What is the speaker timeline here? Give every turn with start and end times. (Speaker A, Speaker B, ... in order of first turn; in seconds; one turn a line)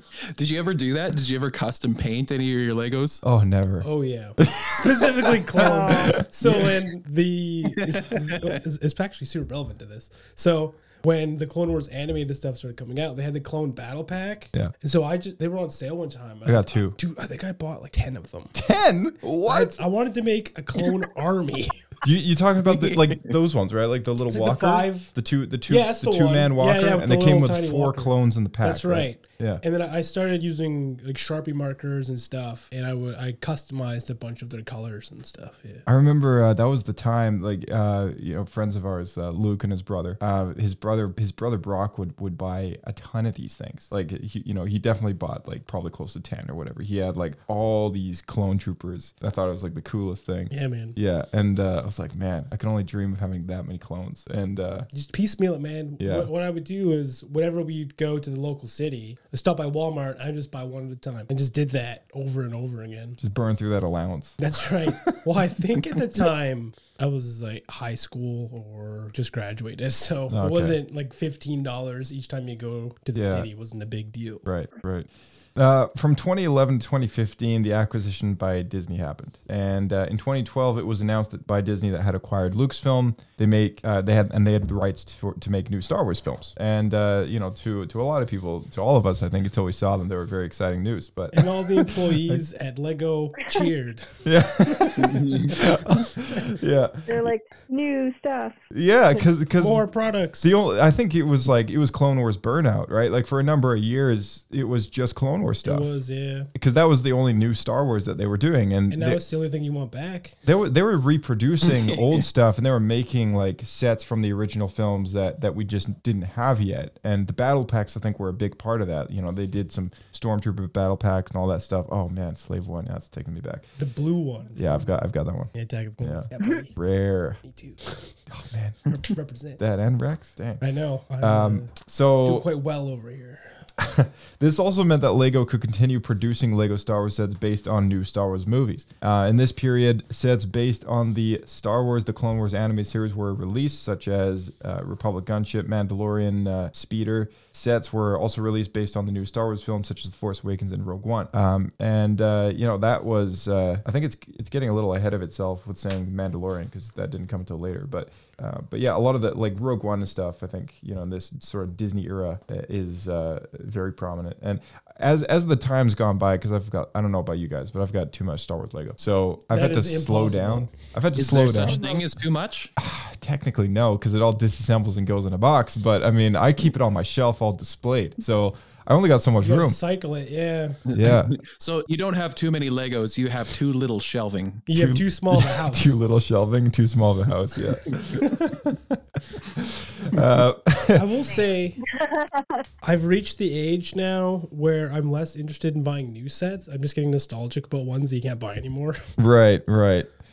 Speaker A: 0.3-3.2
Speaker B: 3.2-3.9
Speaker C: 3.8-18.5
Speaker B: 4.4-5.1
Speaker D: 5.6-6.2
Speaker B: 5.9-6.2
Speaker A: 7.9-8.5
Speaker B: 16.4-16.9
Speaker B: 18.5-19.7
Speaker C: 19.4-21.8
Speaker B: 22.0-29.6
Speaker C: 24.3-25.1
Speaker C: 25.7-35.8
Speaker B: 35.9-54.9
Speaker C: 50.5-51.0
Speaker C: 54.9-63.2
Speaker B: 56.0-56.3
Speaker B: 63.2-65.2
Speaker C: 64.4-74.5
Speaker B: 70.3-70.8
Speaker B: 73.1-73.5
Speaker B: 74.5-92.4
Speaker C: 91.3-94.2
Speaker B: 94.2-97.0
Speaker A: 95.0-95.5
Speaker D: 97.1-98.6
Speaker B: 98.7-99.9
Speaker C: 99.6-100.5
Speaker B: 100.4-105.9
Speaker C: 105.6-106.5
Speaker B: 106.5-109.2
Speaker C: 108.9-110.4
Speaker B: 110.5-123.7
Speaker C: 123.8-124.9
Speaker B: 124.5-127.4
Speaker C: 125.5-126.7
Speaker C: 127.4-128.1
Speaker B: 128.3-128.9
Speaker C: 128.9-129.6
Speaker B: 129.6-130.6
Speaker C: 130.6-133.5
Speaker B: 131.2-132.5
Speaker B: 133.8-171.8
Speaker C: 169.5-170.7
Speaker A: 171.2-172.7
Speaker D: 171.6-172.0
Speaker B: 172.8-179.8
Speaker C: 179.4-180.8
Speaker B: 180.9-181.4
Speaker A: 180.9-184.6
Speaker C: 184.7-185.9
Speaker B: 184.7-189.0
Speaker B: 189.5-191.2
Speaker C: 190.9-191.8
Speaker D: 191.9-192.5
Speaker C: 192.8-199.0
Speaker B: 199.2-200.1